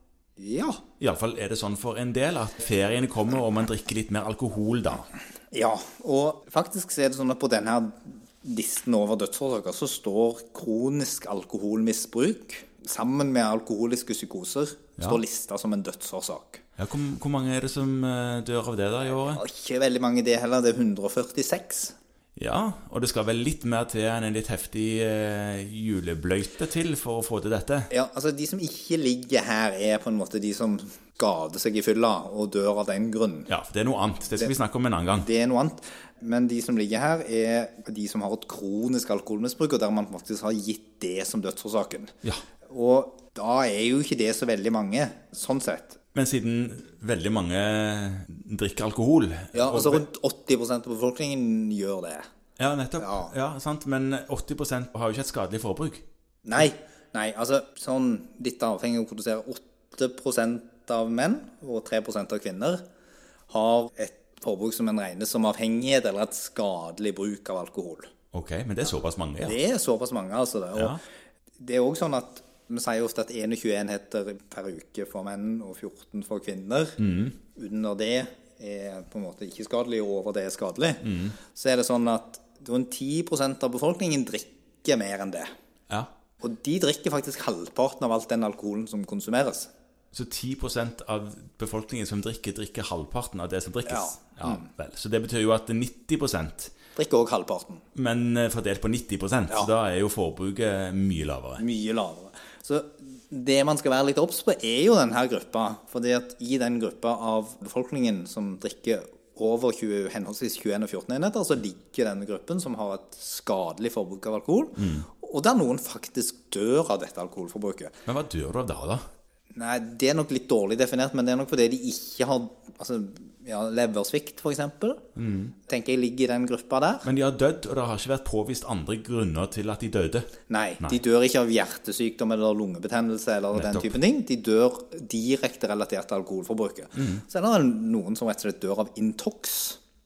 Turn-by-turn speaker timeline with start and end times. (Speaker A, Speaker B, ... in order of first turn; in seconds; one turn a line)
Speaker A: 0.4-0.8
Speaker B: 1.0-5.1
Speaker A: 5.5-16.6
Speaker B: 16.8-19.4
Speaker A: 19.2-22.0
Speaker B: 22.4-27.9
Speaker A: 27.9-33.5
Speaker B: 33.5-35.3
Speaker A: 35.2-42.1
Speaker A: 42.7-46.0
Speaker B: 46.1-50.0
Speaker A: 49.5-52.3
Speaker B: 52.6-56.0
Speaker A: 53.0-53.3
Speaker A: 56.5-62.8
Speaker A: 63.5-68.1
Speaker B: 68.3-69.6
Speaker A: 69.4-71.0
Speaker A: 71.6-77.0
Speaker B: 77.0-77.4
Speaker A: 77.5-85.5
Speaker B: 81.0-81.4
Speaker A: 86.4-89.7
Speaker B: 90.1-96.7
Speaker A: 93.9-94.7
Speaker A: 97.0-97.8
Speaker B: 98.0-101.6
Speaker A: 101.6-118.0
Speaker B: 114.8-115.1
Speaker B: 118.1-119.0
Speaker A: 119.5-125.0
Speaker B: 125.2-125.5
Speaker A: 125.7-127.1
Speaker B: 127.0-131.0
Speaker A: 130.5-139.8
Speaker B: 133.5-134.0
Speaker B: 136.9-137.2